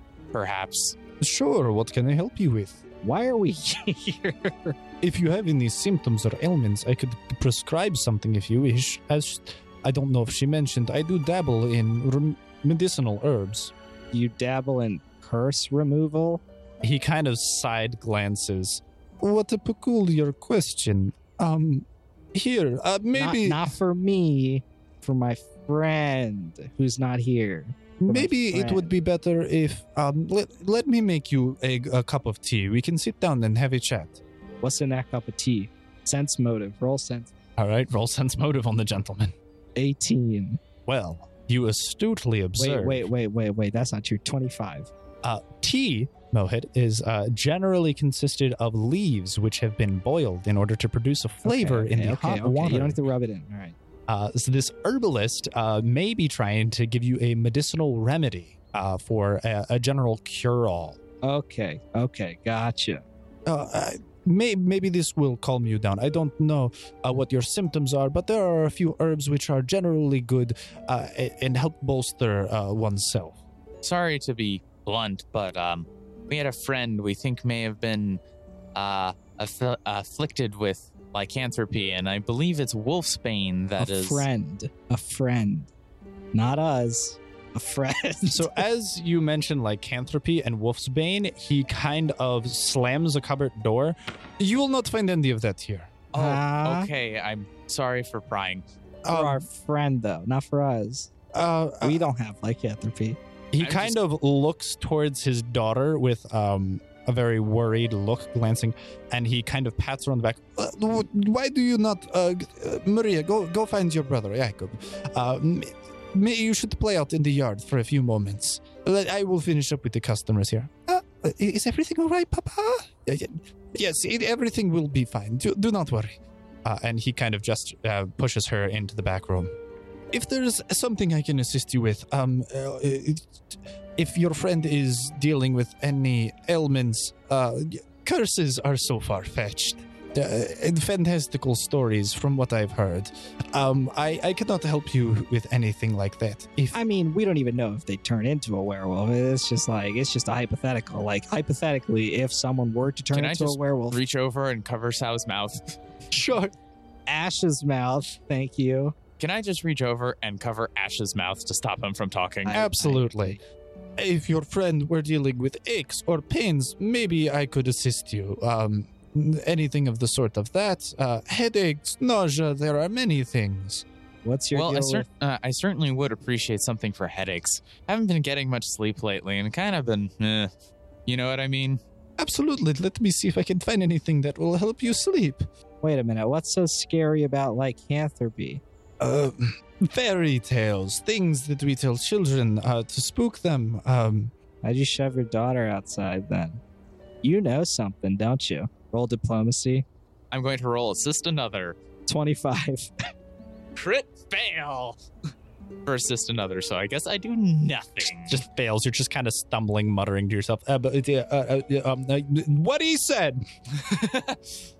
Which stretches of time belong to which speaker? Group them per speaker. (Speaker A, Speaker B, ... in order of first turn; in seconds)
Speaker A: 0.3-0.9, 73.8-78.2, 78.7-84.2, 96.1-98.6, 103.6-104.0, 153.1-155.8, 159.2-162.6, 174.5-180.5, 181.1-181.8, 200.3-201.8, 203.8-205.0, 205.8-208.4, 213.8-214.5
Speaker B: 1.2-2.8, 5.0-13.7, 16.8-23.7, 28.0-34.2, 37.6-39.3, 40.9-43.1, 45.2-53.0, 54.1-61.0, 63.5-73.4, 88.3-96.0, 99.0-99.5, 101.3-102.1, 103.5-129.5, 130.1-133.3, 134.0-146.8, 156.1-156.5, 162.5-163.4, 164.0-173.8, 182.2-185.4, 189.0-194.3, 208.0-213.4
Speaker C: 3.0-4.8, 14.1-16.4, 23.1-28.9, 34.6-37.3, 39.8-40.6, 42.6-44.9, 51.4-53.8, 61.2-63.0, 83.8-85.7, 86.3-88.6, 96.1-96.9, 99.1-101.1, 101.8-103.2, 146.7-154.0, 157.1-158.9, 162.5-163.4, 174.2-175.0, 185.8-188.6, 194.6-196.6, 197.2-199.8, 202.1-202.9